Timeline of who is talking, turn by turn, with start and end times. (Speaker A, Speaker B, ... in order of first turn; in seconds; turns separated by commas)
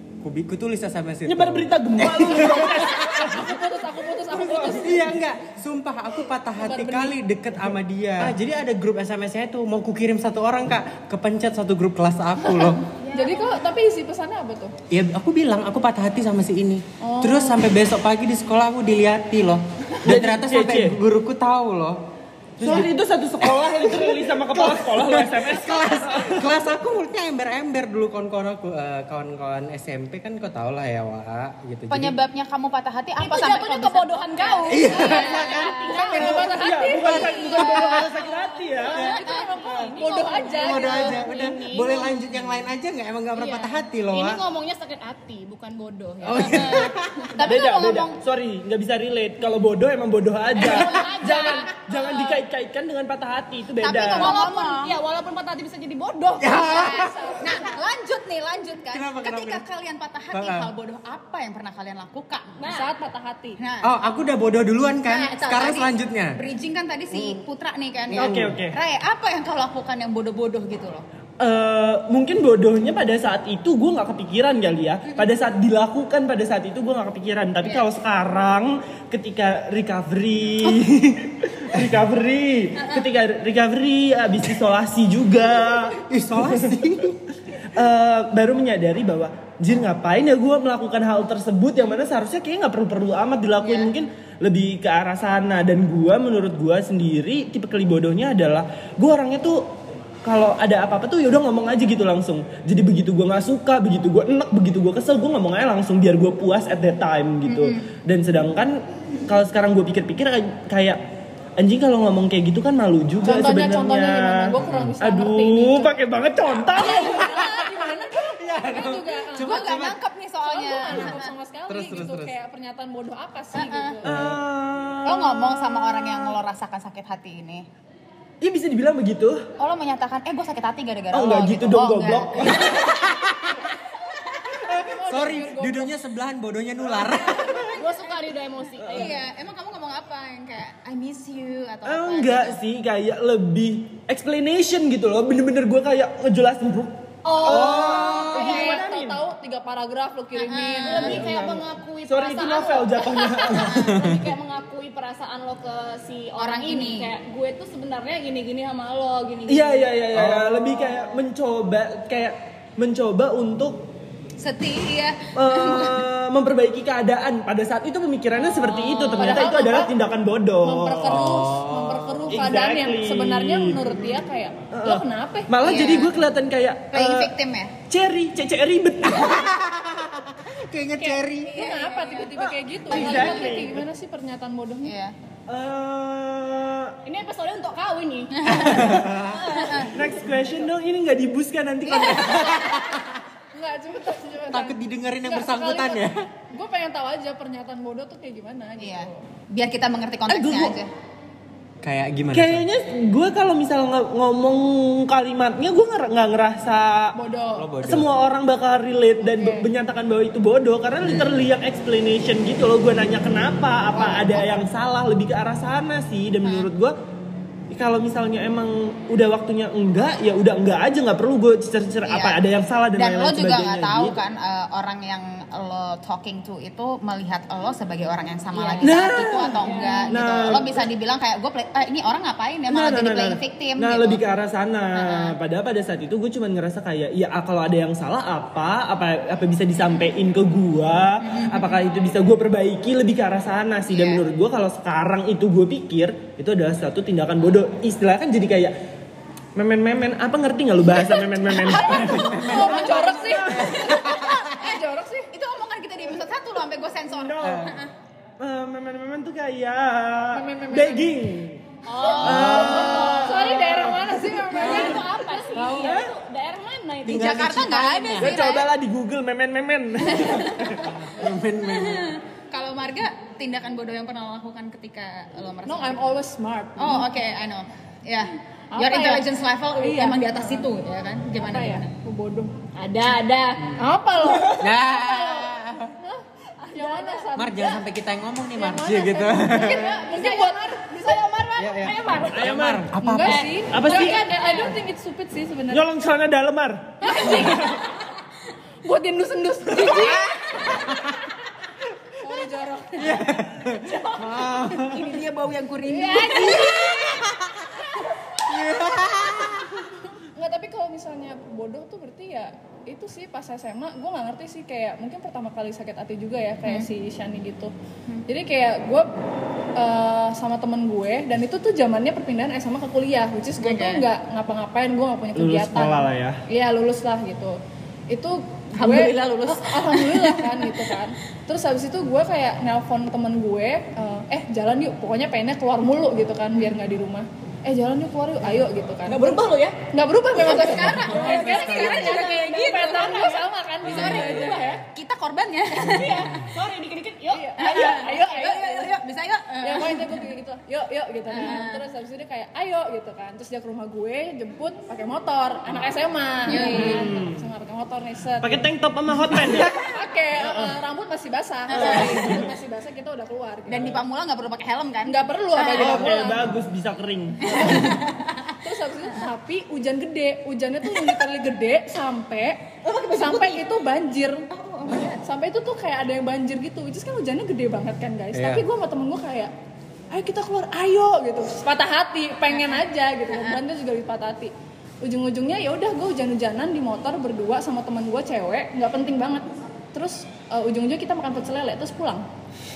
Speaker A: 0.2-3.0, Speaker B: 1.3-3.6, Speaker C: 2.5-5.2, Speaker B: 4.3-5.2, Speaker A: 4.5-12.8, Speaker C: 6.5-7.2, Speaker C: 12.4-14.8, Speaker D: 13.0-13.7, Speaker A: 14.9-22.0, Speaker C: 17.0-17.6, Speaker B: 20.0-21.0, Speaker B: 22.6-26.5, Speaker A: 22.6-22.9, Speaker A: 23.4-32.2, Speaker D: 31.9-36.2, Speaker E: 33.2-36.6, Speaker A: 34.7-37.7, Speaker C: 35.9-37.9, Speaker B: 36.5-39.0, Speaker D: 37.6-38.0, Speaker E: 37.9-42.7, Speaker C: 38.9-41.2, Speaker A: 39.0-39.9, Speaker D: 39.0-39.6, Speaker A: 40.5-44.4, Speaker E: 43.3-47.3, Speaker A: 46.2-47.4, Speaker D: 46.5-48.2, Speaker B: 47.5-54.3, Speaker E: 50.6-52.4, Speaker D: 53.8-55.0, Speaker E: 54.1-57.0, Speaker A: 56.4-57.6, Speaker D: 56.6-62.6, Speaker C: 56.7-57.8, Speaker A: 58.9-59.6, Speaker A: 60.3-60.7, Speaker E: 62.6-62.9, Speaker C: 62.7-63.6, Speaker D: 63.6-63.9, Speaker A: 63.8-66.4, Speaker D: 65.0-71.0, Speaker A: 67.1-67.4, Speaker B: 68.1-68.8, Speaker A: 68.1-68.6, Speaker B: 71.4-86.8, Speaker D: 82.8-83.1, Speaker A: 85.9-87.2, Speaker B: 87.5-99.7, Speaker D: 93.6-93.9, Speaker B: 100.2-111.0, Speaker D: 107.5-107.8, Speaker B: 111.6-117.3, Speaker C: 113.2-116.0, Speaker A: 114.6-114.9, Speaker C: 116.7-124.1, Speaker A: 117.1-120.0, Speaker D: 119.4-121.3, Speaker A: 120.9-122.3, Speaker D: 123.5-124.0, Speaker A: 124.0-124.4, Speaker B: 124.0-126.4, Speaker D: 125.0-127.7, Speaker B: 128.4-129.5, Speaker D: 129.6-132.9, Speaker B: 131.1-132.9, Speaker A: 132.8-133.6, Speaker C: 134.5-136.0, Speaker A: 134.6-137.7, Speaker E: 137.7-139.2, Speaker D: 138.8-142.6, Speaker B: 141.8-149.2, Speaker E: 147.2-148.8, Speaker A: 147.4-148.6, Speaker C: 148.3-151.2, Speaker D: 150.4-151.2, Speaker E: 150.8-160.0, Speaker B: 151.1-153.9, Speaker A: 153.7-154.2, Speaker D: 156.4-157.1, Speaker B: 159.5-163.9, Speaker A: 160.1-160.9, Speaker D: 164.4-166.1, Speaker B: 165.3-171.3, Speaker E: 168.6-169.4, Speaker C: 169.2-169.9, Speaker D: 169.2-169.9, Speaker C: 170.6-175.5, Speaker A: 171.1-172.3, Speaker B: 172.3-174.2, Speaker B: 174.7-177.3, Speaker D: 175.6-176.2, Speaker D: 176.9-177.8, Speaker B: 177.9-179.4, Speaker A: 179.1-181.7, Speaker C: 181.0-184.9, Speaker D: 181.4-183.4, Speaker B: 182.9-183.8, Speaker D: 184.8-185.2, Speaker B: 185.5-186.9, Speaker E: 187.1-189.9, Speaker D: 188.3-190.0, Speaker A: 188.7-189.4, Speaker B: 188.8-189.2, Speaker B: 189.9-192.5, Speaker D: 192.0-192.3, Speaker A: 192.2-193.2, Speaker C: 193.5-199.2, Speaker A: 194.5-196.2, Speaker D: 198.8-200.9, Speaker B: 200.3-200.8, Speaker A: 201.8-202.7, Speaker B: 202.3-207.2, Speaker C: 207.1-207.7, Speaker A: 207.6-208.1, Speaker B: 207.8-217.0, Speaker C: 209.2-209.7, Speaker A: 211.0-211.3, Speaker C: 214.1-214.5, Speaker D: 216.4-216.7, Speaker B: 217.7-224.2, Speaker D: 222.1-222.4, Speaker D: 222.9-234.2, Speaker E: 228.5-230.2, Speaker B: 228.8-230.8, Speaker B: 232.7-248.7, Speaker D: 235.0-235.3, Speaker D: 241.3-241.7, Speaker D: 243.9-244.2, Speaker B: 249.6-253.8, Speaker C: 251.4-255.3, Speaker A: 252.0-254.6, Speaker D: 255.3-257.9, Speaker B: 257.1-257.7, Speaker A: 257.4-257.8, Speaker B: 258.4-261.6, Speaker C: 260.3-261.1, Speaker E: 261.9-263.8, Speaker D: 262.1-263.1, Speaker B: 262.1-264.2, Speaker A: 262.2-262.9, Speaker C: 262.4-265.9, Speaker E: 264.5-267.7, Speaker A: 264.6-265.0, Speaker B: 265.7-266.1, Speaker A: 267.1-268.4, Speaker D: 267.1-268.7, Speaker B: 268.2-271.0, Speaker D: 270.2-270.7, Speaker A: 270.8-272.2, Speaker D: 271.2-276.1, Speaker C: 275.7-277.1, Speaker D: 276.8-281.9, Speaker C: 278.7-279.3, Speaker C: 279.8-280.7, Speaker C: 281.4-282.5, Speaker E: 282.8-283.8, Speaker A: 283.6-285.9, Speaker C: 283.8-287.8, Speaker E: 286.7-287.2, Speaker A: 287.3-289.9, Speaker C: 288.6-291.3, Speaker E: 289.5-292.5, Speaker D: 289.6-290.5, Speaker A: 291.6-293.5, Speaker B: 292.3-292.9, Speaker C: 293.0-295.9, Speaker E: 293.2-294.8, Speaker B: 293.7-294.3, Speaker B: 295.7-297.6, Speaker C: 297.0-297.9, Speaker C: 298.9-300.4, Speaker A: 300.0-301.2, Speaker C: 302.2-303.3, Speaker A: 303.0-305.1, Speaker D: 303.7-307.3, Speaker C: 305.9-306.9, Speaker A: 306.6-307.7, Speaker C: 307.9-308.8, Speaker A: 308.5-309.8, Speaker C: 310.4-317.7, Speaker C: 318.3-319.1, Speaker C: 319.8-339.3, Speaker D: 323.6-324.0, Speaker B: 325.4-326.4, Speaker D: 328.8-330.7, Speaker E: 339.1-339.8, Speaker C: 339.9-344.8, Speaker D: 340.3-343.2, Speaker E: 340.5-344.8, Speaker A: 343.9-344.6, Speaker D: 344.9-346.4, Speaker E: 345.8-348.1, Speaker C: 347.3-348.9, Speaker D: 347.6-350.1, Speaker C: 349.6-358.6, Speaker D: 351.3-351.9, Speaker D: 356.5-357.1, Speaker B: 356.8-357.4, Speaker B: 358.4-359.8, Speaker C: 359.8-364.0, Speaker D: 361.7-362.4, Speaker D: 363.7-366.2, Speaker C: 365.1-366.5, Speaker B: 365.8-367.5, Speaker D: 367.4-368.6, Speaker C: 367.4-368.1, Speaker C: 368.6-379.5, Speaker E: 372.9-373.6, Speaker D: 374.5-375.2, Speaker A: 378.3-378.6, Speaker C: 380.1-392.3, Speaker D: 383.3-383.6